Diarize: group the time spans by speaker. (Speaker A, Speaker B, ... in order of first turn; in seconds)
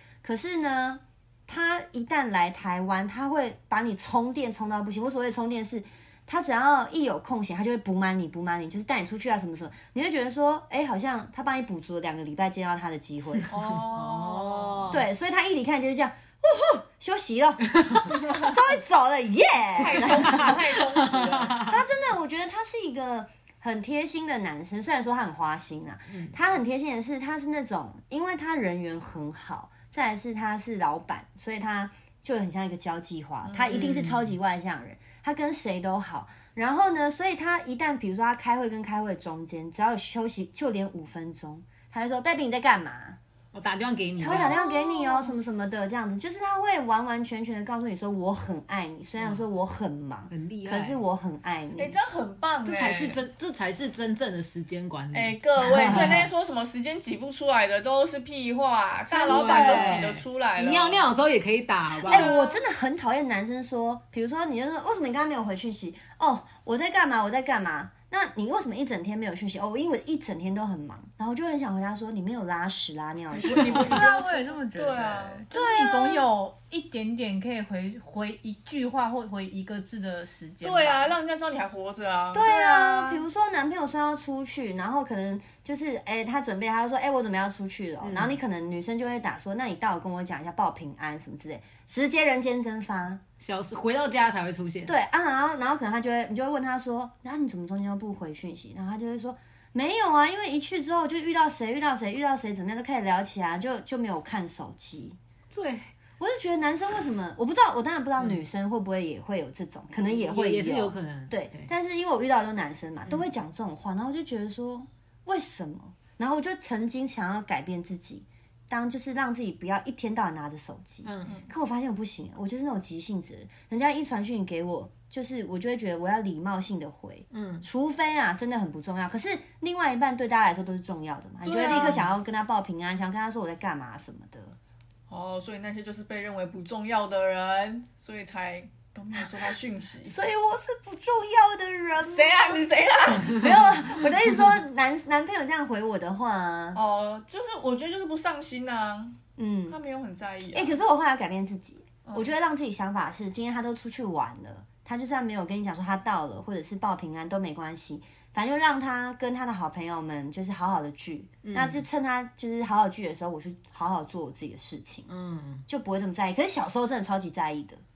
Speaker A: 0.2-13.5, 14.9-20.6, 21.6-43.2, 44.2-52.0, 55.6-56.2, 59.1-60.2, 62.0-74.0, 75.5-76.3, 82.3-93.2, 94.9-105.2, 106.2-134.6, 140.0-142.7, 143.2-146.8, 149.4-149.8, 150.5-165.1, 165.7-167.8
Speaker B: 13.5-15.0, 19.8-21.7, 33.4-34.0, 44.3-45.3, 51.8-53.2, 55.1-61.1, 62.0-62.6, 73.3-75.5, 80.6-83.2, 131.4-132.0, 135.1-140.2, 142.0-143.7, 146.7-149.2, 149.7-150.8, 152.1-152.3
Speaker C: 13.9-15.0, 21.0-21.8, 33.7-34.4, 43.5-44.6, 49.2-49.5, 50.3-51.0, 52.6-56.2, 59.2-62.4, 88.0-88.4, 93.4-95.0, 105.5-105.9, 110.0-111.7, 121.0-121.4, 127.3-127.7, 131.7-132.1, 161.4-161.8, 165.1-165.7
Speaker D: 73.8-81.2